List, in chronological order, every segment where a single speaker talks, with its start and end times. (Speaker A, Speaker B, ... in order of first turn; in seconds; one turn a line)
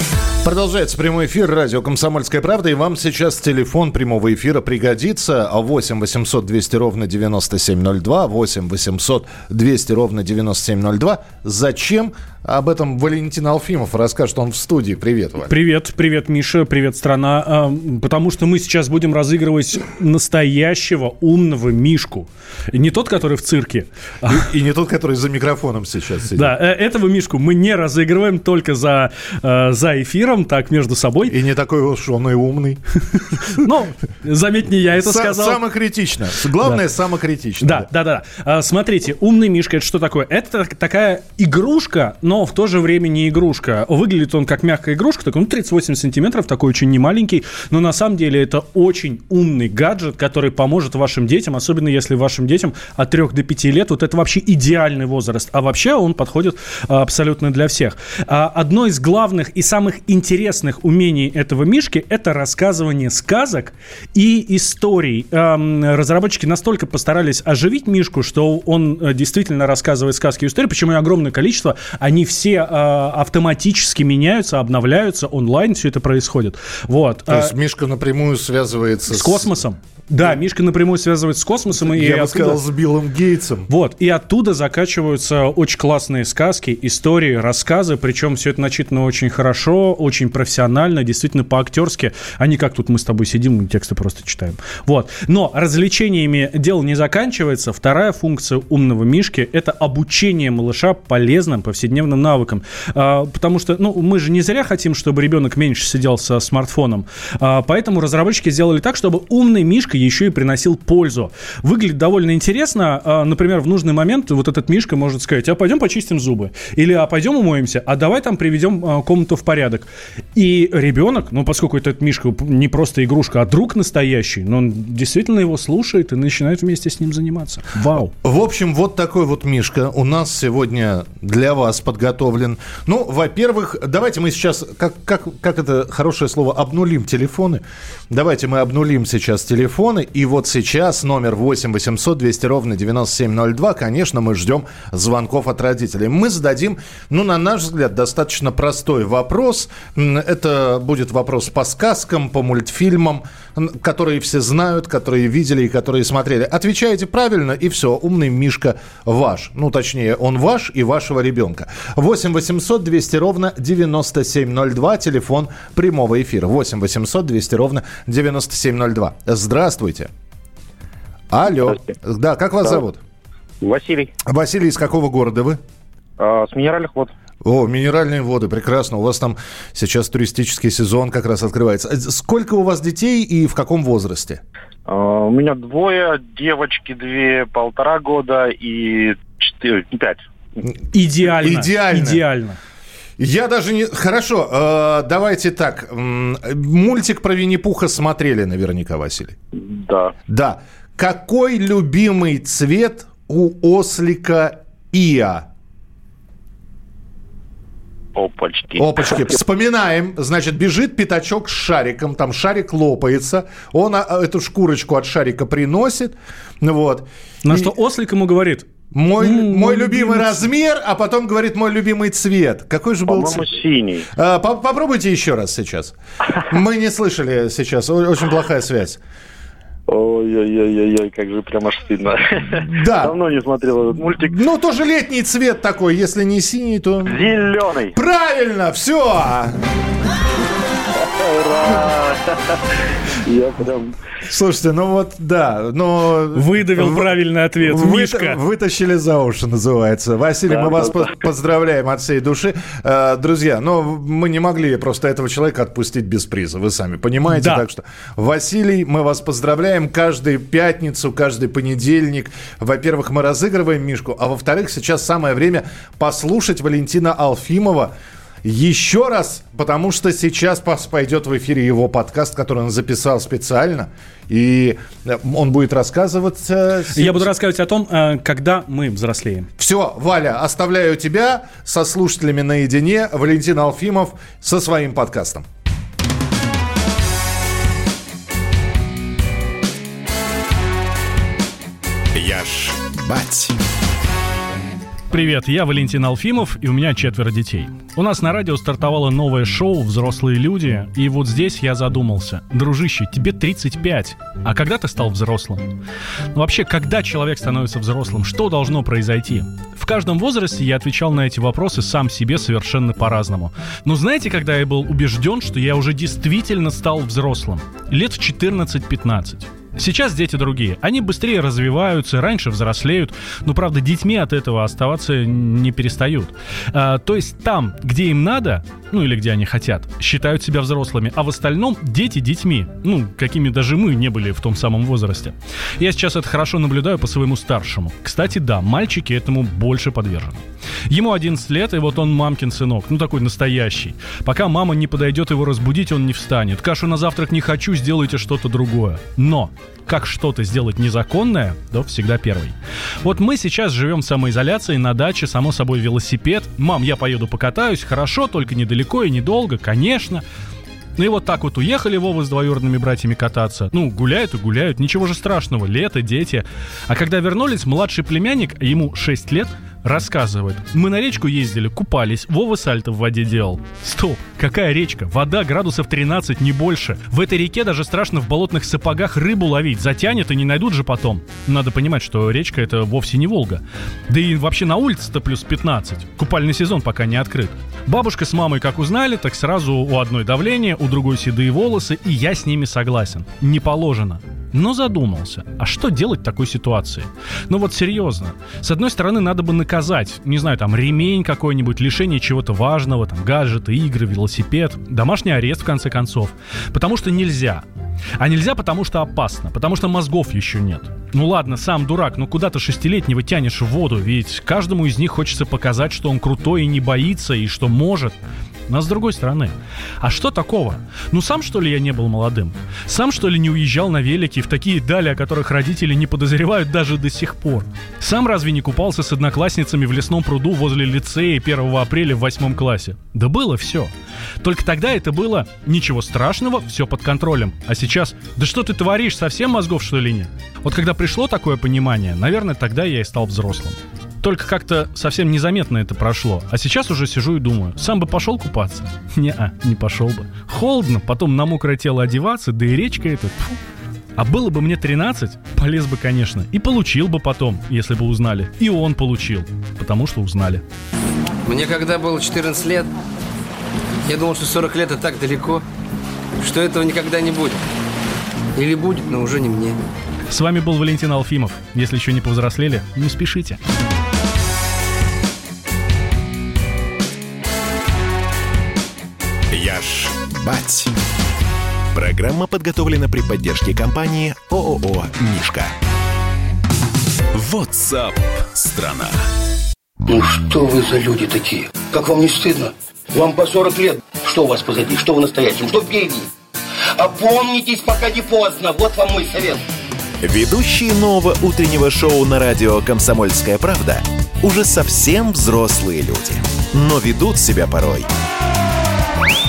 Speaker A: 0.4-15.5
Speaker B: 15.5-24.5
Speaker A: 24.3-26.5
Speaker B: 26.4-31.4
Speaker A: 31.3-33.6
Speaker B: 33.5-35.6
Speaker A: 35.0-37.9
Speaker B: 36.6-36.9
Speaker B: 37.6-77.5
Speaker A: 77.3-79.5
Speaker B: 79.1-82.6
Speaker A: 81.8-83.7
Speaker B: 83.7-128.1
Speaker A: 128.2-170.1
Speaker A: 171.3-173.0
Speaker C: 173.6-174.1
Speaker A: 174.3-175.6
Speaker C: 176.2-177.1
Speaker A: 177.4-184.4
Speaker C: 184.9-190.7
Speaker B: 190.9-192.6
Speaker A: 191.3-192.2
Speaker A: 193.2-199.4
Speaker C: 199.6-200.1
Speaker A: 200.3-205.5
Speaker C: 208.2-209.4
Speaker A: 208.8-217.7
Speaker B: 217.4-220.5
Speaker A: 218.9-223.5
Speaker C: 223.1-224.1
Speaker A: 224.1-229.0
Speaker C: 229.9-234.4
Speaker A: 232.6-233.2
Speaker A: 234.3-237.2
Speaker C: 237.1-237.9
Speaker A: 237.9-239.6
Speaker C: 241.0-242.4
Speaker C: 243.3-244.0
Speaker A: 244.3-267.9
Speaker B: 246.3-248.4
Speaker C: 250.5-251.1
Speaker B: 257.3-257.6
Speaker A: 268.4-277.3
Speaker B: 276.9-279.5
Speaker A: 279.6-285.4
Speaker D: 292.1-293.6
Speaker B: 295.1-305.7
Speaker B: 306.3-360.2
Speaker B: 361.0-407.6
Speaker B: 408.2-453.6
Speaker B: 454.2-460.6
Speaker E: 461.5-462.9
Speaker E: 464.1-465.6
Speaker E: 466.4-467.6
Speaker E: 468.6-469.8
Speaker B: 470.3-473.6
Speaker D: 479.5-480.9
Speaker D: 481.9-485.7
Speaker D: 487.3-489.2
Speaker F: 490.1-496.3
Speaker F: 497.0-499.6
Speaker D: 500.2-508.1